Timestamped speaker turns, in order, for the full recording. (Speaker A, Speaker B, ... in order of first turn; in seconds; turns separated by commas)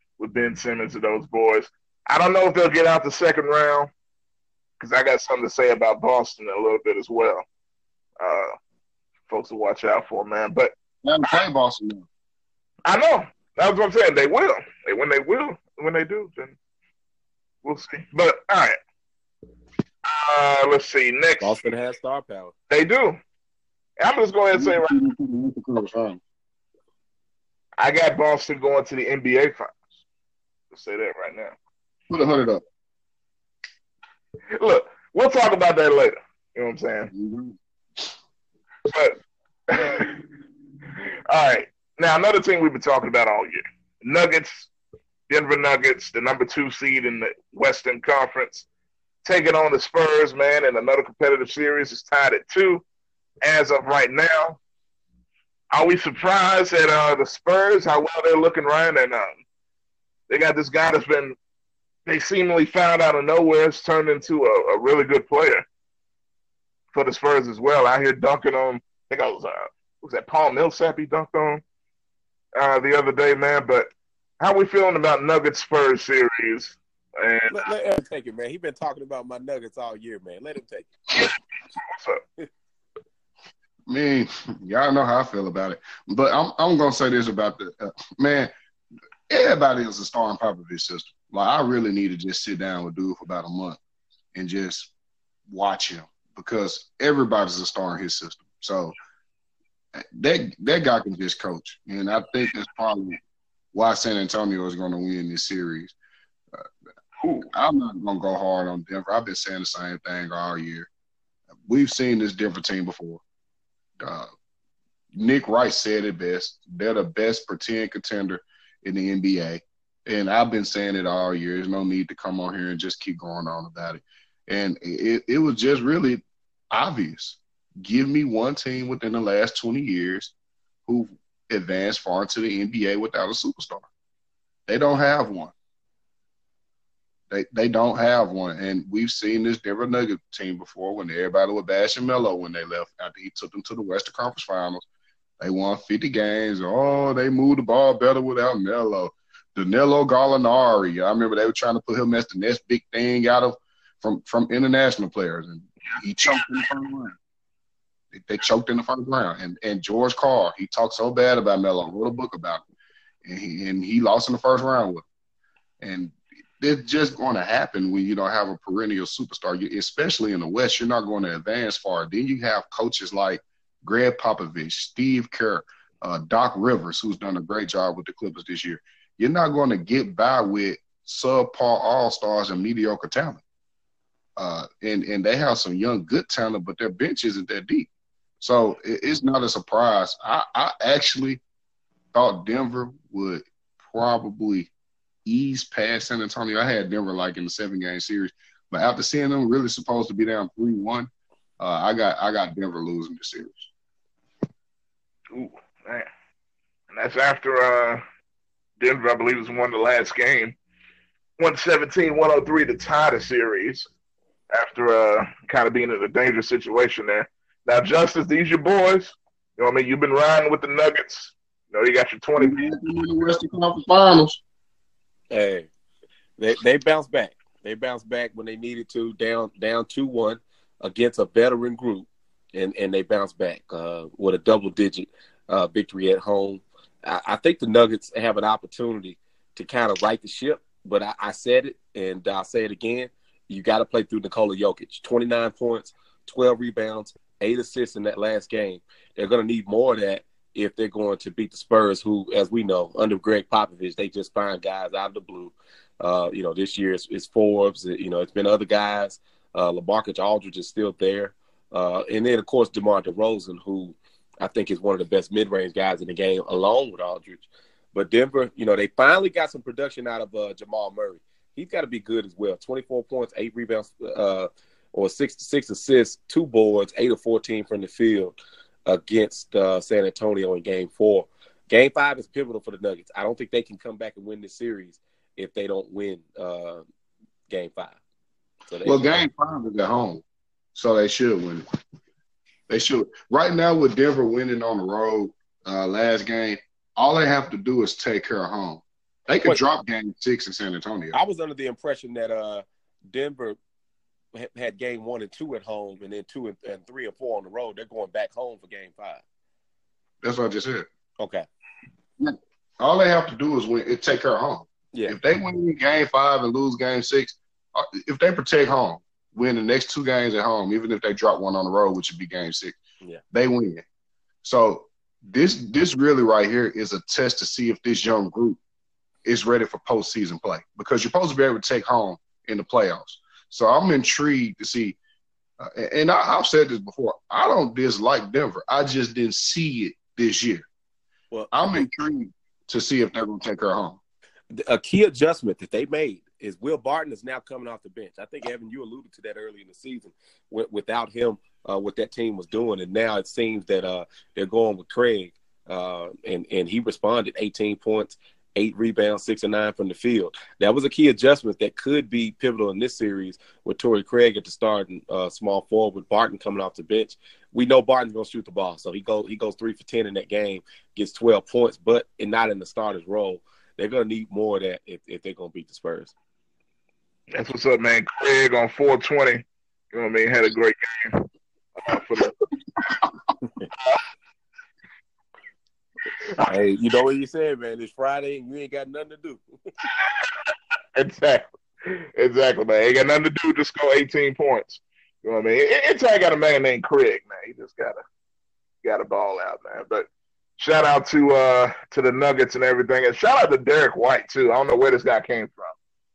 Speaker A: 0.2-3.9, Speaker A: 4.8-7.4, Speaker A: 8.2-8.5, Speaker A: 9.3-10.7, Speaker B: 11.0-12.1, Speaker A: 12.8-16.6, Speaker A: 17.6-18.8, Speaker A: 20.0-21.6, Speaker C: 21.4-22.5, Speaker A: 22.7-23.2, Speaker A: 24.0-24.9, Speaker B: 24.5-26.2, Speaker A: 27.8-29.7, Speaker A: 30.7-31.5, Speaker B: 32.1-32.6, Speaker A: 34.5-37.1, Speaker B: 37.1-38.1, Speaker A: 38.9-39.2, Speaker A: 39.7-40.2, Speaker A: 41.0-44.7, Speaker A: 45.3-48.6, Speaker A: 49.2-52.8, Speaker A: 53.4-54.6, Speaker A: 55.7-59.3, Speaker A: 60.3-61.4, Speaker A: 62.0-65.6, Speaker A: 66.9-71.6, Speaker A: 72.6-73.9, Speaker A: 74.4-77.5, Speaker C: 77.5-80.9, Speaker A: 81.1-82.2, Speaker B: 83.9-88.5, Speaker B: 89.3-93.8, Speaker B: 94.3-94.9, Speaker B: 95.5-98.9, Speaker B: 100.0-103.2, Speaker B: 103.7-105.9, Speaker B: 107.2-110.9, Speaker B: 111.7-113.2, Speaker B: 114.0-114.3, Speaker B: 115.1-130.3, Speaker B: 130.9-133.9, Speaker B: 134.7-135.5, Speaker B: 137.3-144.8, Speaker B: 145.4-157.2, Speaker B: 158.1-162.6, Speaker B: 163.2-165.1, Speaker B: 165.8-183.4, Speaker B: 184.4-187.9, Speaker B: 188.4-191.4, Speaker B: 192.1-194.7, Speaker B: 195.2-203.7, Speaker A: 205.3-206.1, Speaker A: 206.9-208.0, Speaker A: 208.8-210.6, Speaker A: 211.4-213.9, Speaker A: 214.5-222.6, Speaker B: 222.4-224.4, Speaker C: 225.3-225.7, Speaker C: 226.4-286.8, Speaker C: 287.5-288.0, Speaker C: 288.7-289.2, Speaker B: 288.8-290.2, Speaker B: 290.7-291.6, Speaker B: 292.7-301.1, Speaker C: 301.1-303.6, Speaker C: 304.3-309.2, Speaker B: 310.2-310.9, Speaker C: 311.2-311.5, Speaker B: 312.2-322.8, Speaker B: 323.3-323.8, Speaker B: 324.4-328.6, Speaker B: 329.2-335.0, Speaker B: 335.6-340.7, Speaker C: 341.3-341.9, Speaker B: 341.5-344.0, Speaker C: 344.5-376.1, Speaker A: 377.3-381.3, Speaker A: 381.8-382.3, Speaker C: 386.4-389.4, Speaker A: 389.8-398.0, Speaker A: 398.8-400.1, Speaker A: 400.6-405.7